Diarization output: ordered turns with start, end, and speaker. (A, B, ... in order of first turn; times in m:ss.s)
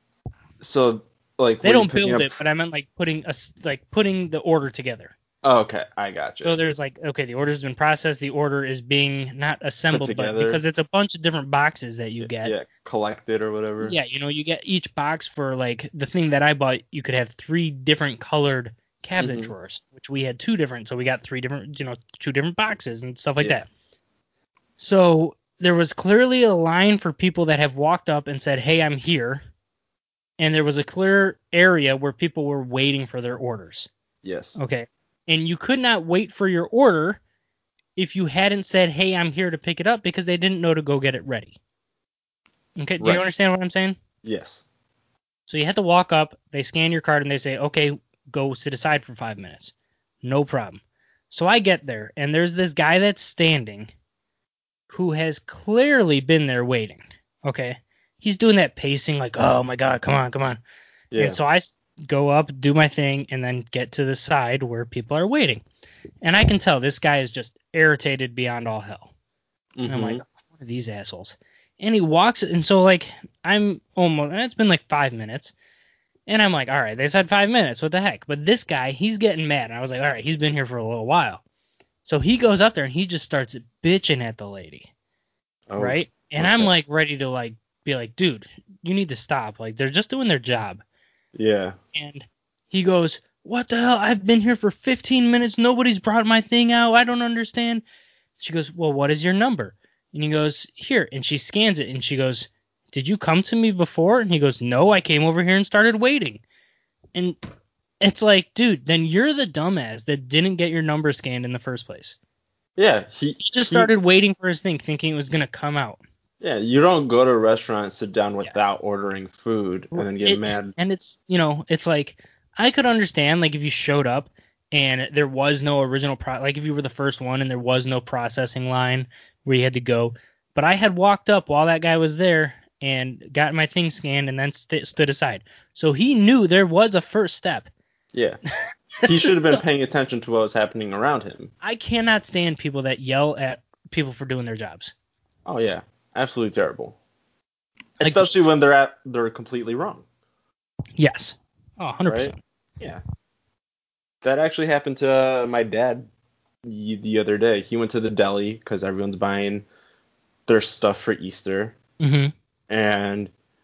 0:00.6-0:02.3 A
0:01.6-0:05.1 B
0:05.4-0:06.6 A
0:06.4-0:12.5 B
0:09.9-0:10.6 A
0:12.2-0:14.0 A
0:13.8-0:23.7 B
0:19.2-0:19.5 A
0:24.8-0:29.4 B
0:30.4-0:33.9 B
0:34.2-0:34.6 A
0:34.6-0:37.2 B
0:38.0-0:41.6 B
0:42.8-0:44.0 B
0:44.2-0:44.6 A
0:45.5-0:53.9 B
0:54.9-1:00.6 B
1:01.1-1:01.4 A
1:01.2-1:05.6 B
1:06.2-1:09.1 B
1:09.8-1:10.2 A
1:09.9-1:15.5 B
1:16.3-1:21.4 B
1:22.0-1:24.9 B
1:25.7-1:26.7 A
1:25.8-1:30.8 B
1:31.3-1:31.8 A
1:31.9-1:37.8 B
1:38.4-1:46.4 B
1:48.0-1:52.2 B
1:52.8-1:53.9 A
1:53.4-1:56.0 B
1:56.4-2:00.7 A
1:59.9-2:17.7 B
2:19.0-2:21.5 A
2:19.2-2:19.6 B
2:21.6-2:24.9 B
2:25.4-2:27.0 A
2:28.0-2:30.0 A
2:28.0-2:28.3 B
2:31.0-2:32.4 B
2:32.0-2:33.0 A
2:34.2-2:36.1 A
2:36.6-2:39.6 A
2:40.5-2:41.8 A
2:42.0-2:42.3 B
2:42.7-2:43.3 A